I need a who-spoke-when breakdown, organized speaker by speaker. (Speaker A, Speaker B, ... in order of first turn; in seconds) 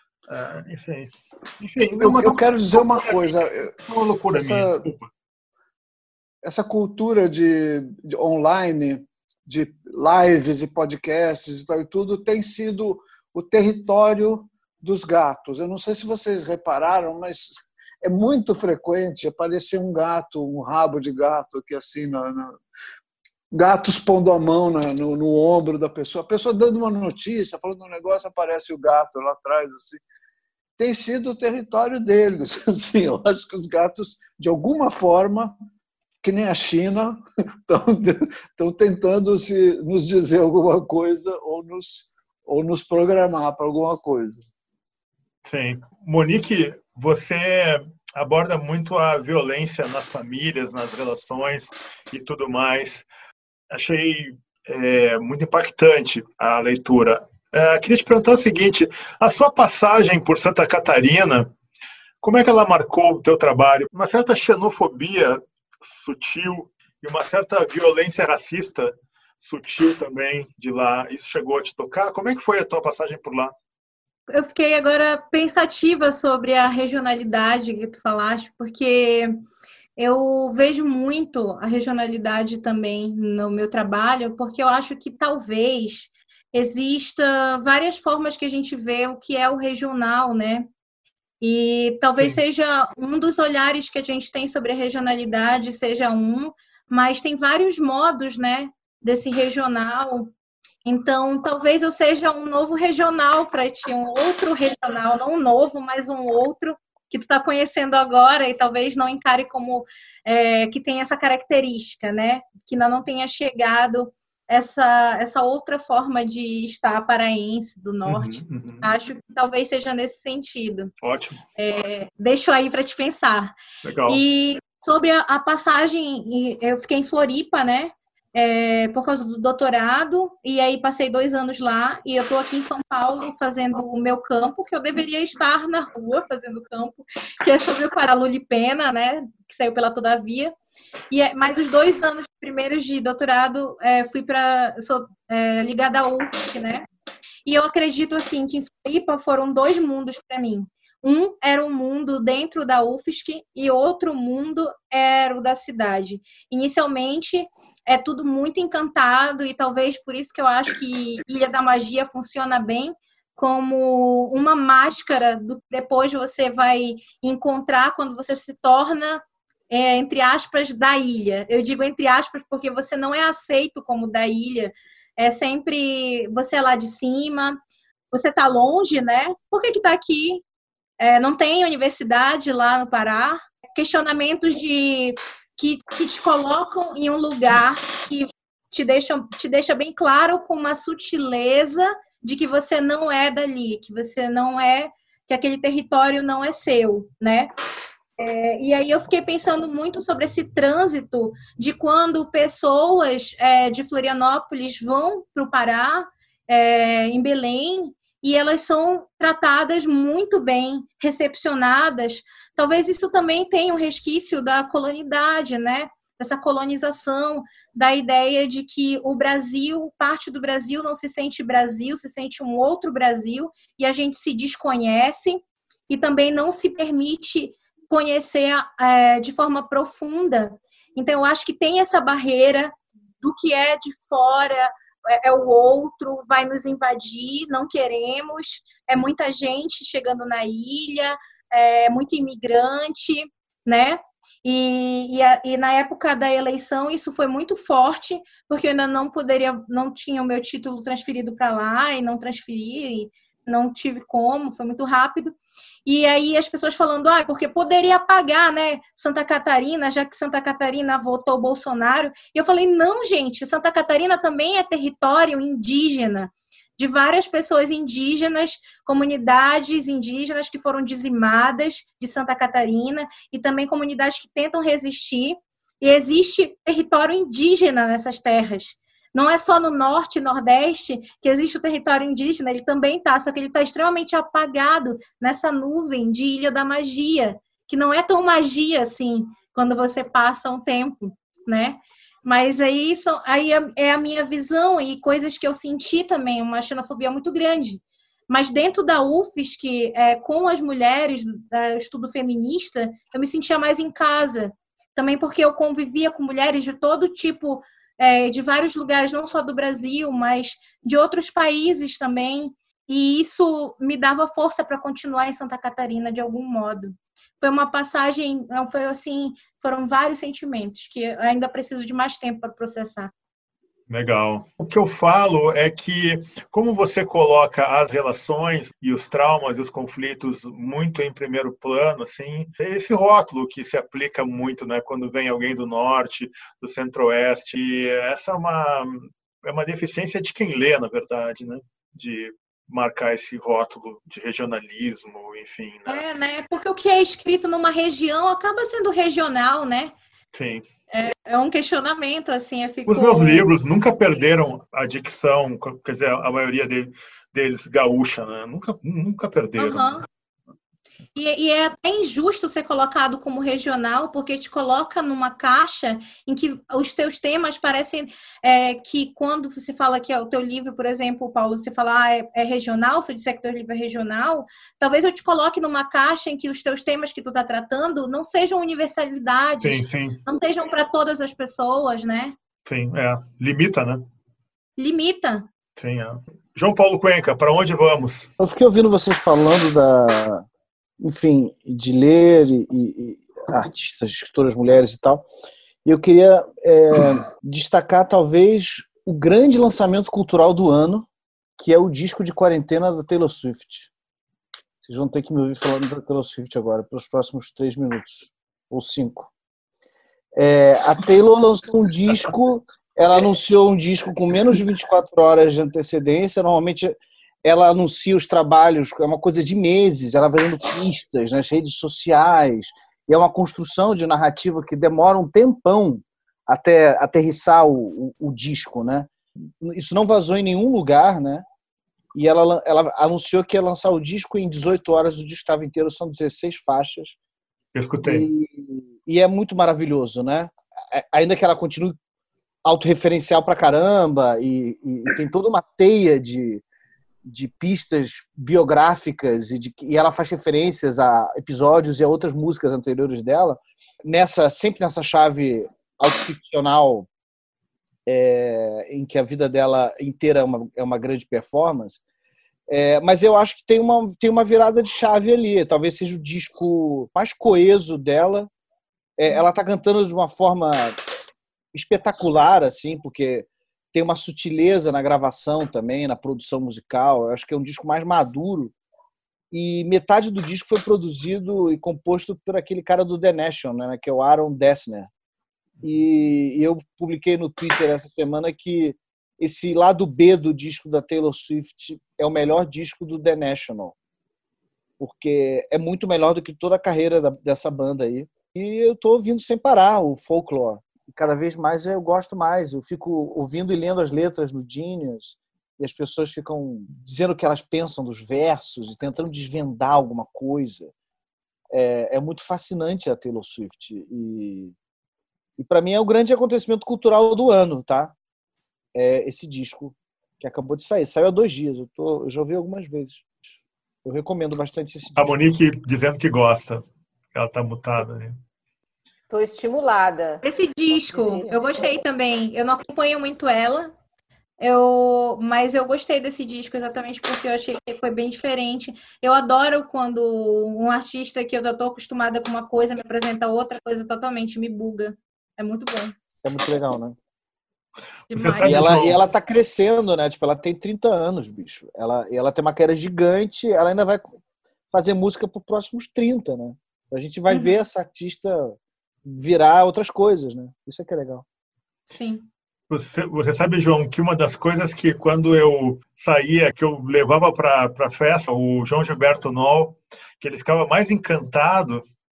Speaker A: 0.3-5.1, 45.4-53.1, 53.7-61.5, 62.2-73.5, 118.0-118.9, 121.0-121.4, 123.8-124.2, 323.9-346.0, 350.3-350.6, 352.9-360.0, 379.6-380.2, 382.6-384.1, 385.8-388.3, 437.7-438.3, 525.1-528.4, 548.3-549.2, 562.9-572.0
Speaker B: 2.0-3.8, 4.3-4.9, 6.4-22.6, 23.5-30.0, 30.8-35.6, 36.2-44.4
Speaker C: 74.3-79.4, 80.0-90.7, 91.4-100.3, 100.8-120.9, 121.6-123.5, 124.1-140.5, 141.1-146.8, 147.4-177.6, 178.1-180.4, 181.0-197.5, 198.2-323.1, 345.9-349.9, 350.9-353.5, 359.6-360.0, 361.1-382.3, 384.8-385.5, 530.4-533.9, 534.6-546.1, 548.3-548.9, 557.5-557.7, 562.1-562.5
Speaker D: 388.4-390.4, 391.0-395.2, 395.8-401.1, 401.6-403.9, 404.8-409.3, 410.4-431.4, 432.1-437.1, 438.0-441.9, 442.6-446.6, 447.2-457.1, 458.1-462.0, 462.7-468.5, 469.2-471.0, 471.7-478.7, 479.5-485.1, 485.8-493.9, 495.0-510.9, 511.7-514.7, 515.6-518.1, 518.9-523.2, 524.0-525.2, 546.4-547.1, 548.6-554.3, 554.9-561.4
Speaker E: 529.3-531.6